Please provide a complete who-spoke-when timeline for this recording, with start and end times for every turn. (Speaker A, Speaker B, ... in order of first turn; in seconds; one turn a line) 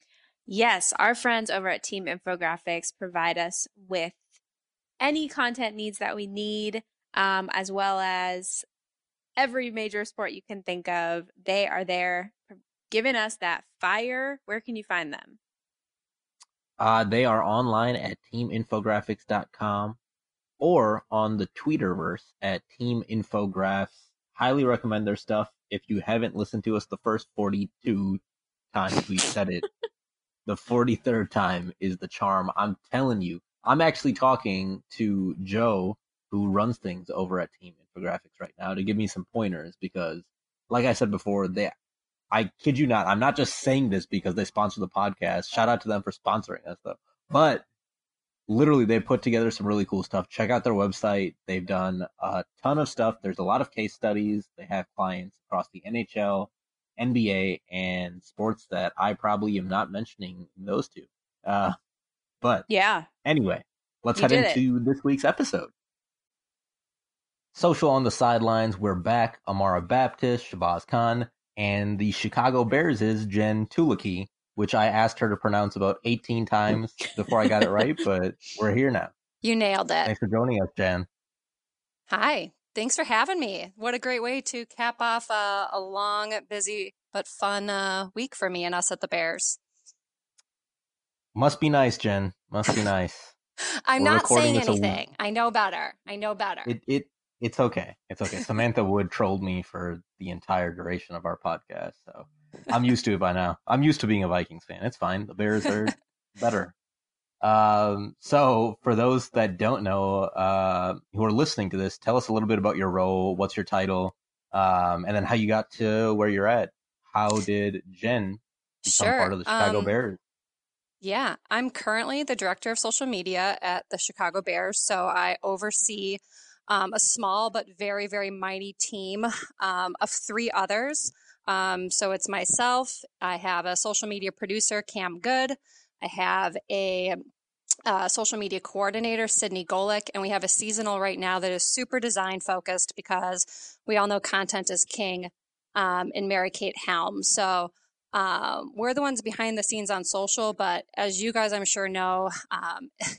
Speaker A: 0.5-4.2
Speaker A: 5.0-8.7
Speaker A: 9.4-15.4
Speaker B: 16.8-20.0
Speaker B: 20.6-28.2
Speaker B: 28.7-29.6
Speaker B: 30.4-41.7
Speaker B: 42.3-47.6
Speaker B: 48.5-61.8
Speaker B: 62.4-62.7
Speaker A: 62.7-63.1
Speaker B: 63.2-65.7
Speaker A: 64.2-64.6
Speaker B: 67.5-79.1
Speaker A: 77.5-77.8
Speaker C: 79.4-80.1
Speaker B: 80.0-81.1
Speaker C: 82.1-89.6
Speaker B: 91.3-93.3
Speaker C: 93.9-96.7
Speaker B: 94.0-95.0
Speaker B: 96.7-106.7
Speaker B: 107.4-120.2
Speaker C: 118.8-120.0
Speaker C: 121.0-137.2
Speaker C: 137.9-152.9